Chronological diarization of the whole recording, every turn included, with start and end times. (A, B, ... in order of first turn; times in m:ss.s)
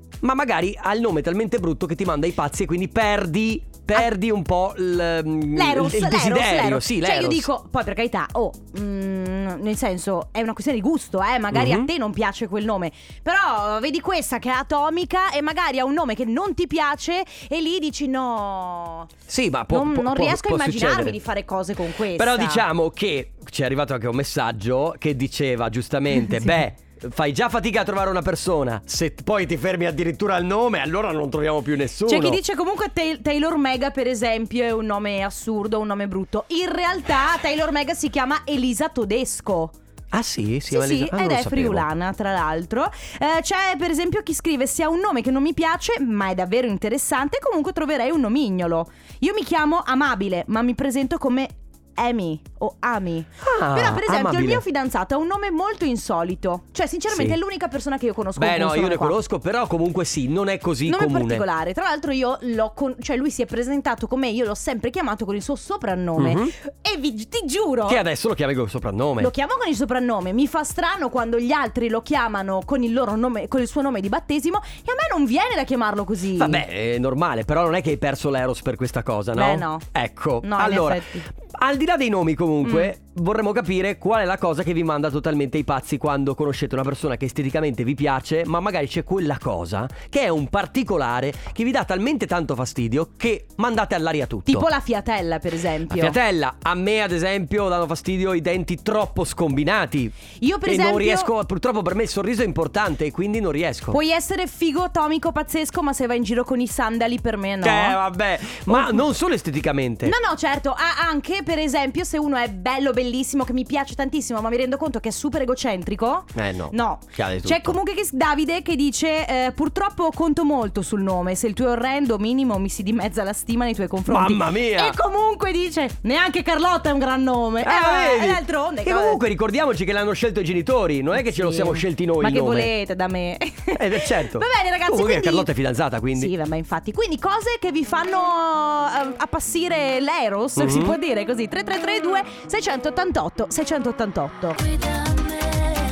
0:00.2-0:07.5 A
0:05.5-0:19.1 B
0:11.5-0:11.9 A
0:19.3-0:21.2 A
0:19.7-0:22.6 B
0:22.1-0:32.4 A
0:32.1-0:39.7 B
0:40.1-0:41.8 A
0:40.7-0:59.2 B
0:53.4-0:54.6 A
0:57.1-0:57.4 A
0:58.4-1:01.4 A
1:00.8-1:08.0 B
1:06.2-1:06.5 A
1:07.9-1:09.3 A
1:09.2-1:16.6 B
1:16.4-1:34.7 A
1:19.3-1:19.8 B
1:20.4-1:21.3 B
1:22.6-1:22.9 B
1:34.5-1:36.2 B
1:35.9-1:44.0 A
1:40.4-1:41.3 B
1:43.9-1:48.0 B
1:47.6-1:50.1 A
1:48.7-1:49.0 B
1:50.0-2:09.2 B
1:56.3-1:57.8 A
2:04.1-2:05.0 A
2:07.6-2:12.7 A
2:11.1-2:15.5 B
2:13.7-2:16.3 A
2:16.1-2:24.6 B
2:20.6-2:21.0 A